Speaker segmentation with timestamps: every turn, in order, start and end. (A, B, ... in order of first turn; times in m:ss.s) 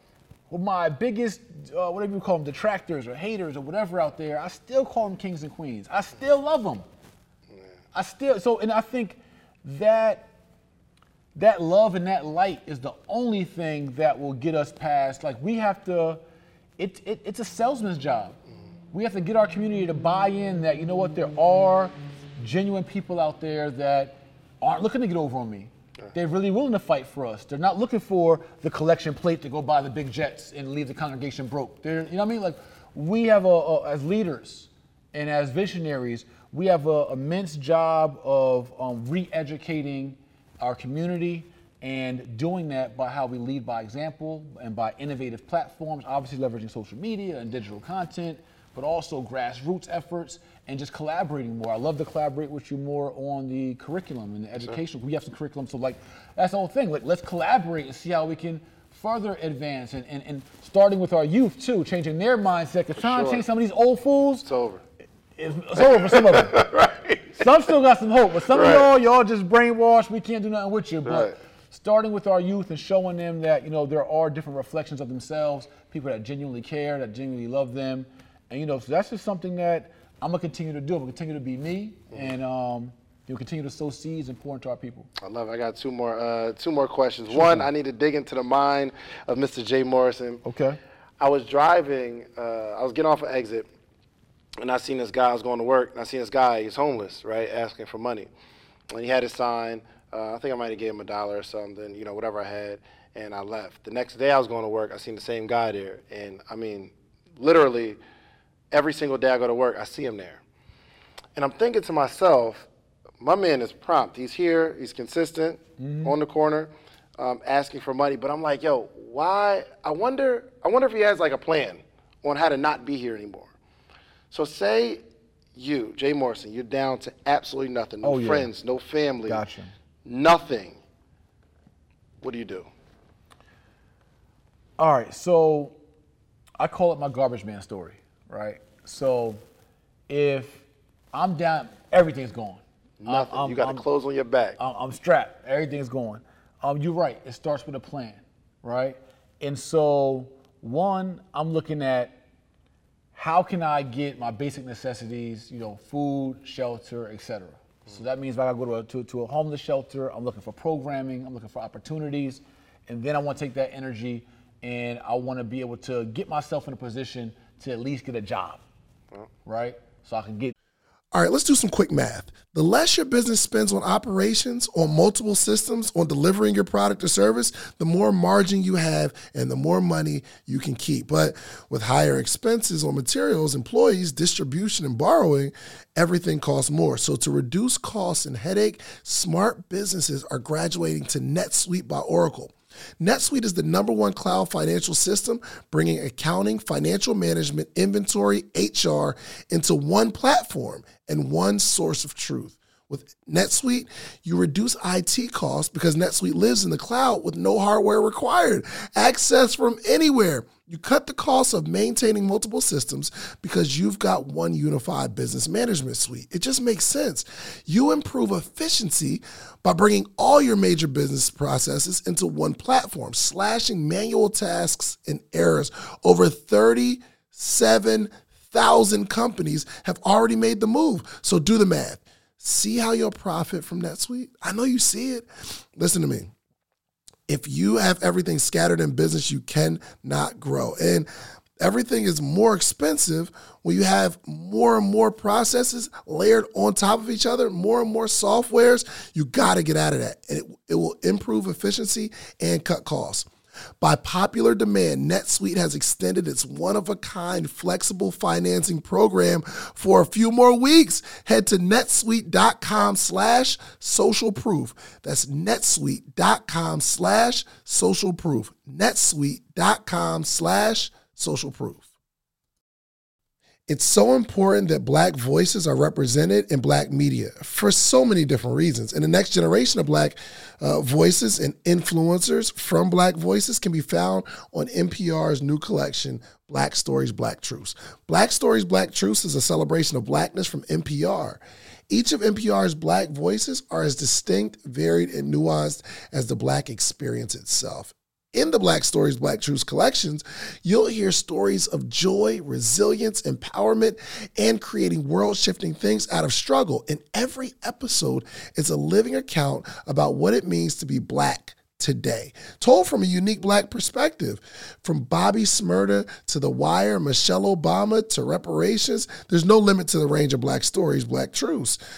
0:00.5-0:06.8 A
0:07.9-0:10.3 A
0:11.3-0:16.2 A
0:16.8-0:18.4 A
0:18.9-1:04.4 A
1:03.0-1:03.4 B
1:04.4-1:04.8 B
1:05.4-1:06.6 A
1:05.8-1:07.4 B
1:07.4-1:25.1 A
1:08.5-1:08.9 B
1:11.0-1:11.4 B
1:25.2-1:30.4 B
1:27.3-1:27.7 A
1:30.4-1:30.8 A
1:31.2-1:33.7 B
1:34.6-1:38.3 B
1:38.9-1:48.0 B
1:48.7-1:50.4 B
1:51.4-1:52.7 B
1:53.2-2:03.5 B
1:55.8-1:56.1 A
2:04.3-2:05.0 B
2:05.5-2:09.4 B
2:08.0-2:08.5 A
2:09.3-2:09.7 A
2:10.0-2:10.8 B
2:12.2-2:12.7 B
2:14.8-2:15.8 A
2:16.6-2:19.4 A
2:20.1-2:23.8 A
2:23.0-2:24.6 B
2:24.6-2:32.2 A
2:33.1-2:48.6 A
2:49.4-2:50.5 A
2:51.1-3:56.3 C
3:57.3-4:01.1 C
4:01.6-4:13.3 C
4:13.8-4:31.8 C
4:33.7-5:21.8 C